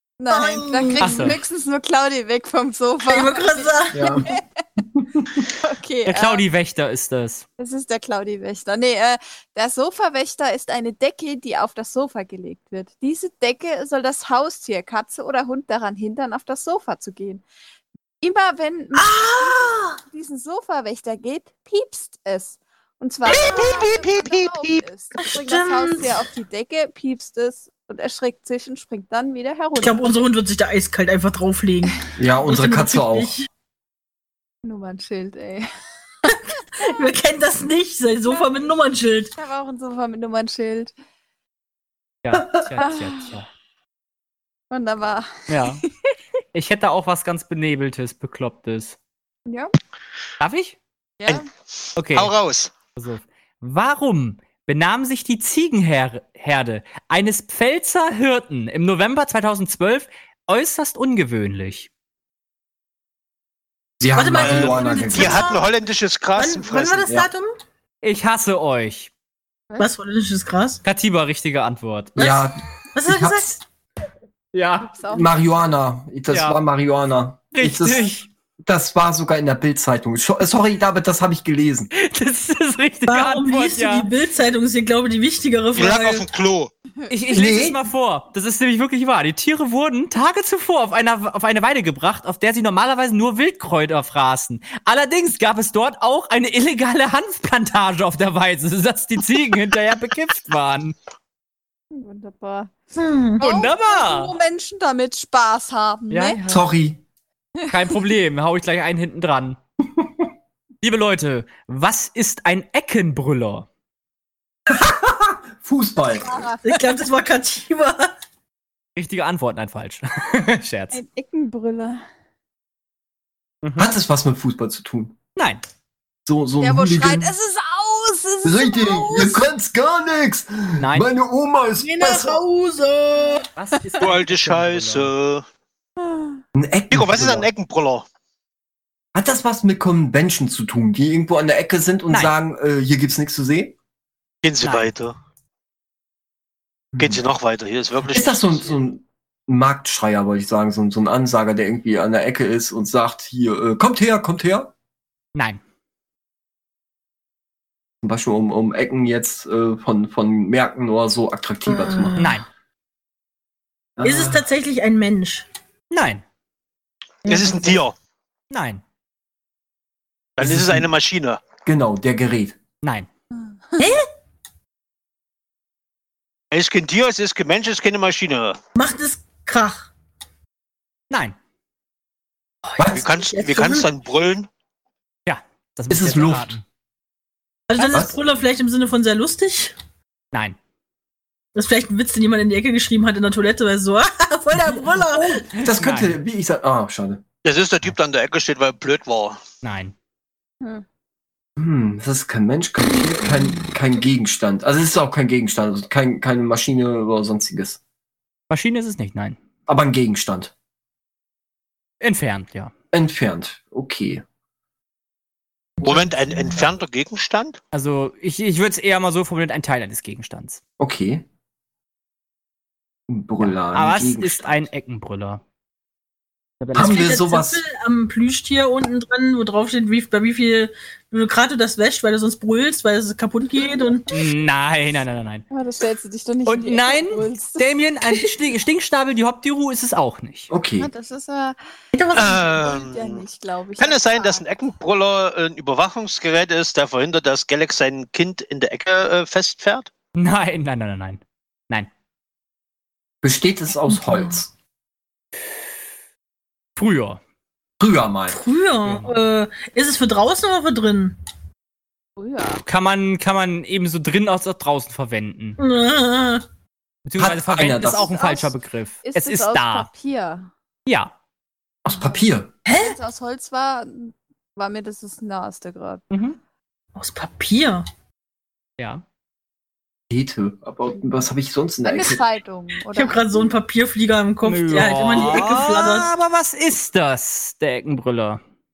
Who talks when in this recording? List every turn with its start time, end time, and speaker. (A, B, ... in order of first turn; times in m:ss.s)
0:00.2-0:04.4 A
0:00.3-0:01.4 B
0:01.0-0:01.4 C
0:03.0-0:04.2 B
0:03.9-0:04.3 D
0:05.0-0:05.4 D
0:05.6-0:06.4 A
0:06.0-0:07.4 C
0:07.6-0:17.4 A
0:18.2-0:30.1 A
0:18.9-0:20.0 B
0:23.2-0:24.8 E
0:23.3-0:23.8 B
0:25.2-0:26.2 B
0:29.8-0:33.5 B
0:32.2-0:33.3 D
0:34.6-0:35.7 A
0:36.3-0:39.3 B
0:38.3-0:38.7 A
0:39.4-0:40.9 A
0:42.2-0:43.5 C
0:42.3-0:42.7 D
0:42.8-0:43.3 A
0:44.7-0:45.9 A
0:45.5-0:45.8 C
0:46.5-0:49.0 C
0:49.5-0:49.7 A
0:50.4-0:50.8 C
0:51.2-0:51.4 A
0:52.0-0:52.3 C
0:52.1-0:52.7 E
0:53.0-1:01.9 C
1:04.0-1:05.5 D
1:04.2-1:05.7 B
1:04.3-1:07.1 E
1:06.4-1:07.5 B
1:08.0-1:09.1 C
1:09.8-1:10.8 B
1:10.8-1:12.2 C
1:12.2-1:13.5 D
1:12.2-1:13.6 B
1:14.5-1:14.9 C
1:14.8-1:15.3 A
1:15.1-1:21.9 D
1:16.3-1:16.6 C
1:17.5-1:18.2 C
1:21.9-1:24.1 C
1:23.1-1:26.2 B
1:25.7-1:26.7 E
1:27.1-1:41.0 C
1:27.3-1:27.8 D
1:41.9-1:42.8 A
1:43.0-1:43.4 B
1:43.4-1:46.4 A
1:43.4-1:44.3 C
1:46.1-1:46.7 C
1:46.5-1:47.0 D
1:47.6-1:47.9 A
1:47.7-1:49.6 C
1:50.8-1:53.7 C
1:54.7-1:56.4 D
1:56.2-1:56.6 A
1:56.6-1:58.1 B
1:59.0-2:01.0 C
2:00.9-2:02.0 A
2:03.6-2:03.9 C
2:03.8-2:05.1 D
2:05.4-2:05.6 C
2:06.2-2:07.3 D
2:06.6-2:09.3 A
2:08.4-2:12.4 D
2:08.8-2:09.4 B
2:10.8-2:11.1 C
2:11.8-2:13.4 B
2:13.6-2:15.1 C
2:14.0-2:15.4 E
2:16.0-2:16.4 A
2:16.5-2:17.5 D
2:16.9-2:18.0 E
2:19.1-2:23.7 D
2:24.4-2:25.1 E
2:24.6-2:24.9 C
2:26.9-2:27.2 D
2:27.0-2:28.8 E
2:28.1-2:34.7 D
2:35.3-2:35.6 C
2:38.0-2:42.2 D
2:41.6-2:42.4 B
2:42.2-2:42.5 C
2:44.0-2:44.4 D
2:44.0-2:45.4 B
2:45.9-2:46.2 C
2:47.2-2:47.9 E
2:47.2-2:47.8 B
2:48.5-2:48.8 C
2:50.4-2:51.4 E
2:50.4-2:50.9 D
2:51.6-2:52.6 D
2:52.8-2:53.1 C
2:53.5-2:54.0 A
2:53.8-2:54.1 B
2:56.5-2:58.6 E
2:58.7-2:59.9 B
3:01.1-3:01.4 C
3:02.6-3:03.9 B
3:02.8-3:03.0 D
3:02.9-3:04.5 E
3:05.2-3:06.6 C
3:05.9-3:06.6 D
3:07.7-3:09.8 B
3:07.9-3:08.2 D
3:10.3-3:10.6 C
3:11.5-3:15.5 B
3:15.2-3:17.2 D
3:15.5-3:16.2 C
3:17.4-3:19.4 E
3:19.6-3:19.9 C
3:21.6-3:27.8 D
3:28.5-3:29.4 C
3:29.7-3:30.5 D
3:32.0-3:32.7 C
3:32.9-3:34.2 D
3:35.8-3:37.6 E
3:37.7-3:40.6 C
3:40.8-3:41.2 D
3:43.1-3:44.6 D
3:43.4-3:45.4 C
3:46.6-3:47.2 C
3:46.7-3:47.6 D
3:46.7-3:54.1 B
3:54.1-3:55.4 C
3:55.5-3:58.3 A
3:56.4-4:00.5 C
4:00.5-4:00.9 D
4:00.8-4:01.6 A
4:01.9-4:02.5 B
4:02.1-4:03.2 E
4:02.2-4:04.4 A
4:03.8-4:09.9 E
4:10.2-4:11.9 C
4:13.2-4:14.5 D
4:13.9-4:14.3 B
4:16.8-4:17.2 C
4:17.8-4:18.4 D
4:18.3-4:21.2 B
4:18.8-4:19.2 C
4:22.2-4:22.6 A
4:22.6-4:25.6 C
4:25.6-4:26.4 B
4:27.0-4:29.9 C
4:27.2-4:28.1 D
4:27.6-4:30.5 A
4:30.8-4:31.1 C
4:31.8-4:32.5 D
4:31.9-4:36.0 A
4:32.6-4:33.0 B
4:36.1-4:36.4 C
4:36.9-4:37.9 B
4:38.8-4:39.0 C
4:40.1-4:42.2 D
4:41.8-4:43.5 A
4:42.9-4:46.1 B
4:44.4-4:48.4 C